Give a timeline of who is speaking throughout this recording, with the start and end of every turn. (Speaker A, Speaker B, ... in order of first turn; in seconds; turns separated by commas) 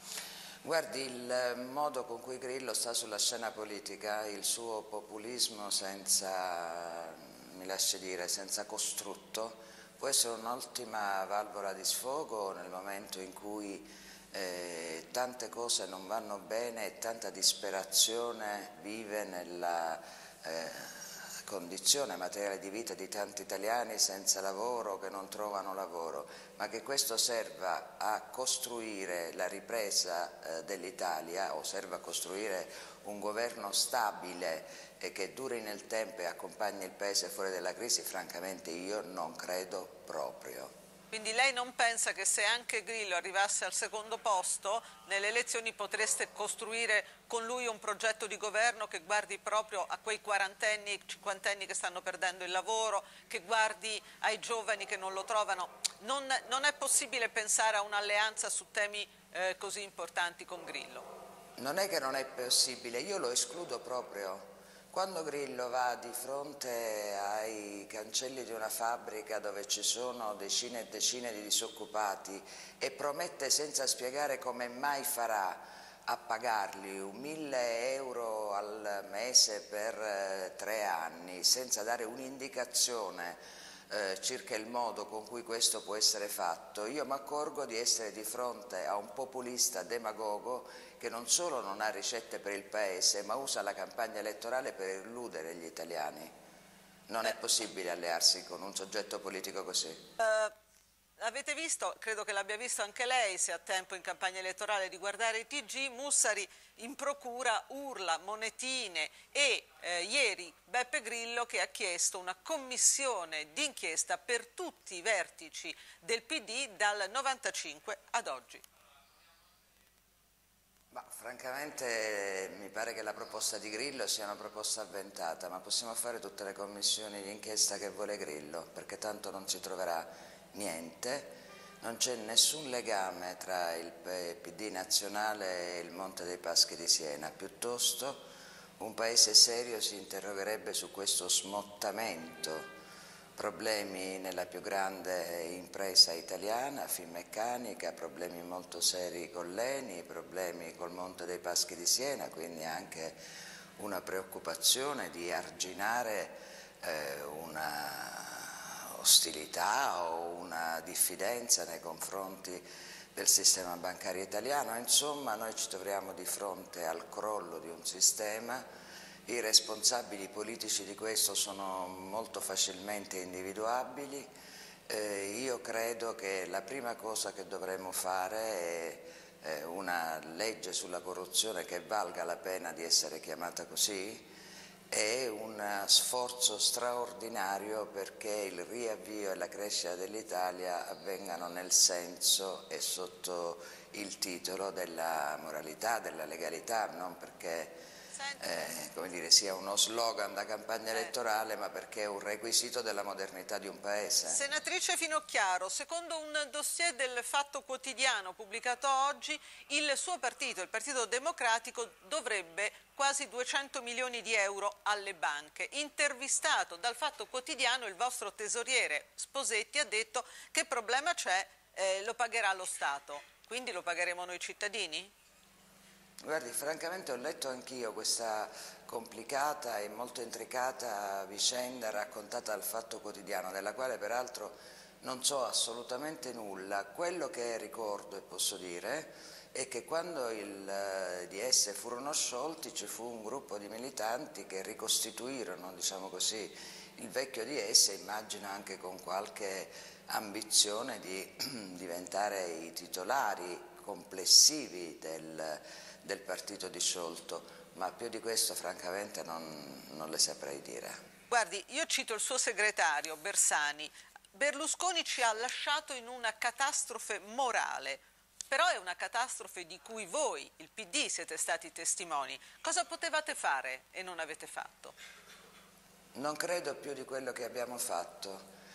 Speaker A: 0.6-40.7, Speaker B: 41.1-61.0, Speaker A: 61.6-96.3, Speaker A: 97.1-100.0, Speaker B: 100.2-100.5, Speaker B: 101.2-118.6, Speaker A: 120.9-138.2, Speaker A: 138.8-142.7, Speaker A: 143.3-153.2, Speaker A: 153.8-168.6, Speaker A: 169.3-174.3, Speaker A: 174.9-184.3, Speaker A: 184.9-197.8, Speaker B: 198.1-198.6, Speaker A: 198.4-204.4, Speaker B: 204.3-225.1, Speaker A: 226.2-260.9, Speaker B: 261.3-274.9, Speaker A: 276.1-278.4